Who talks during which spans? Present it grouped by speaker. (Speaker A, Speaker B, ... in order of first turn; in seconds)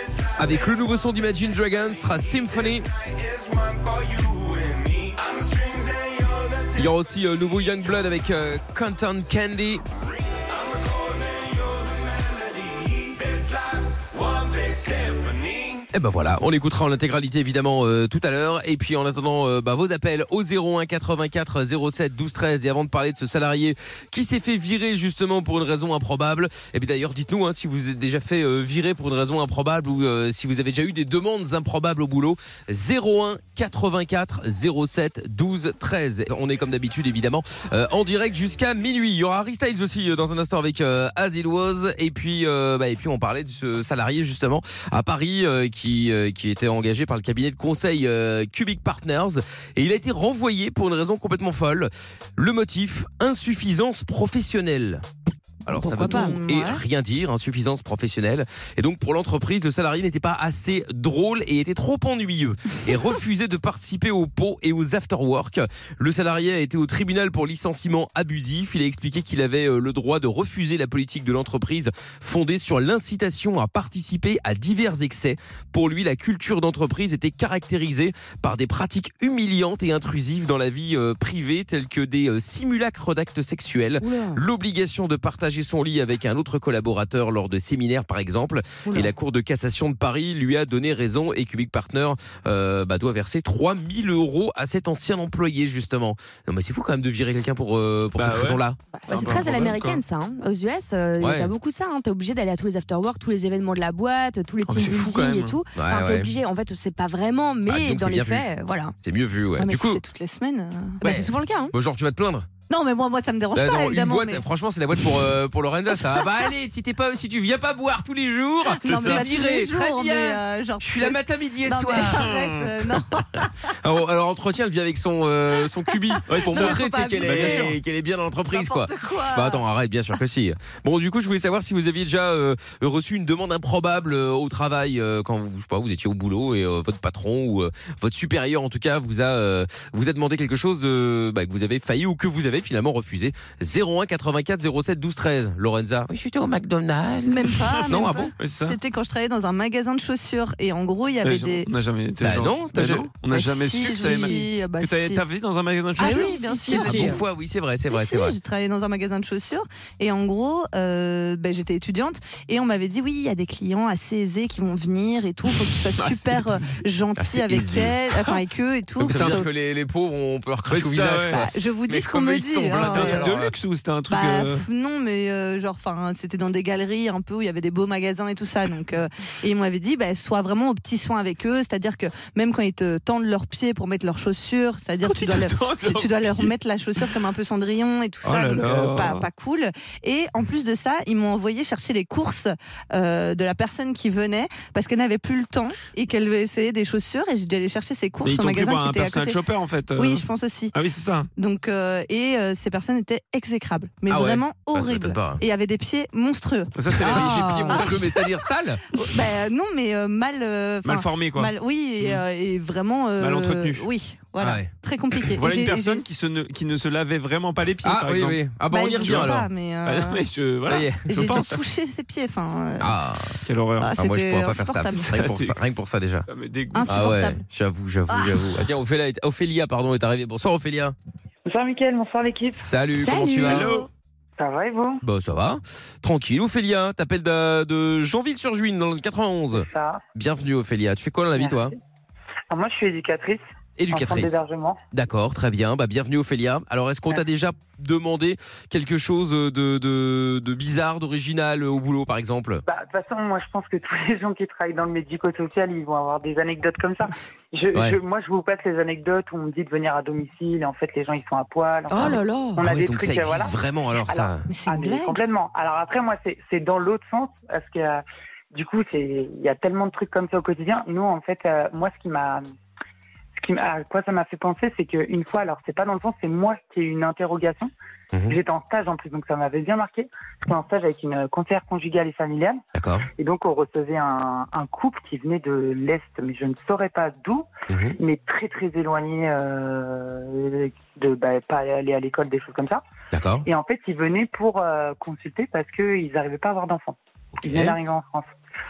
Speaker A: 0.3-2.9, 6.7-9.8, 15.9-55.0, 55.6-98.8, 101.2-101.5, 105.8-106.3, 107.7-108.5, 109.0-110.0, 111.0-112.5, 113.5-122.4, 123.7-148.3, 152.2-153.1, 156.0-158.3, 167.2-168.0, 169.0-173.5, 204.1-205.4, 207.0-208.8, 214.4-214.7, 217.8-219.5, 220.6-221.3, 222.8-223.4, 223.9-226.2, 226.9-230.9, 232.5-233.7, 235.0-241.7, 243.8-244.4, 244.9-252.6, 261.9-264.5, 278.1-278.4, 282.7-283.1, 287.7-288.0, 293.1-293.4, 297.4-297.8
Speaker B: 55.8-56.4, 84.0-84.4, 99.1-108.9, 111.0-111.7, 207.1-207.4, 233.0-233.7, 261.9-262.6
Speaker C: 56.0-56.8, 99.0-99.3, 109.6-111.0, 112.7-114.4, 118.8-123.5, 126.1-127.7, 128.5-129.6, 147.2-151.7, 153.3-155.2, 156.0-157.2, 157.9-169.4, 171.3-173.3, 174.1-199.4, 199.9-200.7, 201.4-208.2, 208.9-216.0, 218.7-220.2, 221.1-222.9, 223.8-225.2, 226.7-227.4, 228.1-228.4, 233.5-233.8, 264.5-265.2
Speaker D: 98.2-100.0, 104.6-105.6, 118.8-119.5, 122.3-122.5, 126.3-127.8, 147.9-148.8, 151.2-157.1, 165.9-166.8, 169.0-169.5, 170.7-171.5, 172.7-174.6, 185.0-186.5, 188.2-189.2, 198.2-201.3, 206.8-208.0, 210.8-212.2, 213.2-213.9, 215.3-221.4, 223.4-223.9, 225.1-225.7, 226.3-227.2, 233.4-233.9
Speaker E: 231.4-232.6, 234.4-235.0, 239.5-240.0, 241.3-241.8, 242.5-244.8, 252.6-263.6, 264.1-272.4, 273.4-277.7, 278.3-282.6, 283.2-287.5, 288.0-292.8, 293.4-298.3